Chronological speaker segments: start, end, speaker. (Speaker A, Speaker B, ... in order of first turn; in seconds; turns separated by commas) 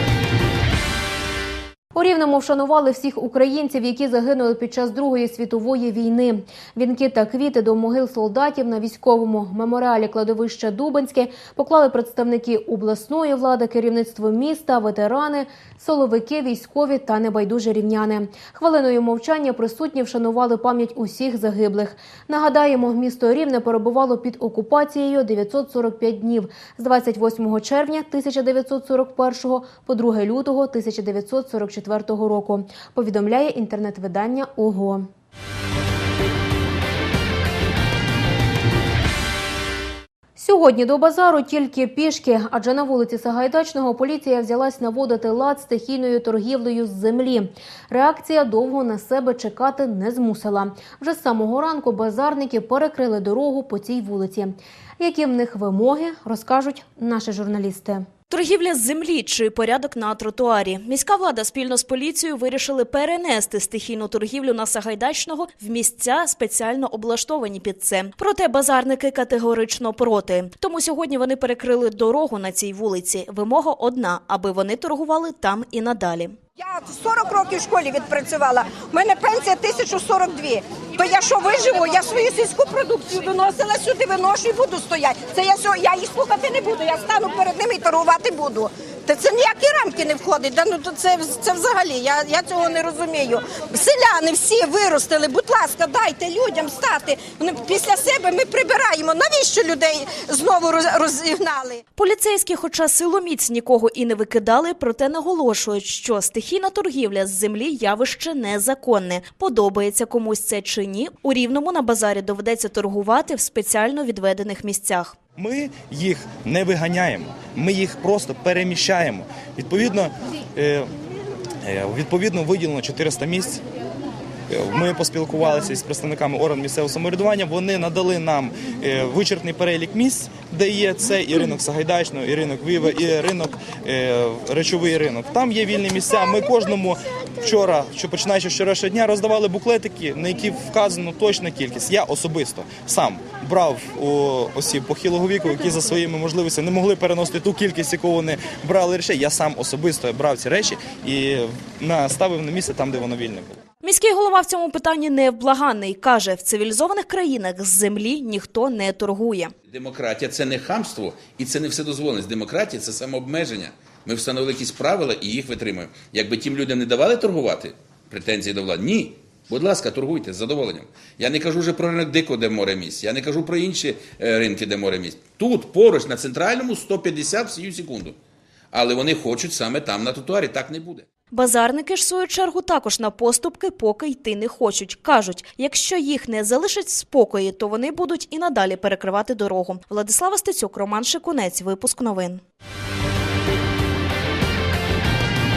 Speaker A: 1.9-35.1, Speaker A: 40.4-58.0, Speaker B: 58.3-76.4, Speaker C: 76.7-101.8, Speaker B: 102.0-115.2, Speaker D: 115.4-120.9, Speaker D: 121.6-123.6, Speaker D: 124.5-153.6, Speaker B: 153.8-159.5, Speaker E: 159.7-178.2, Speaker E: 178.7-181.1, Speaker B: 181.3-192.4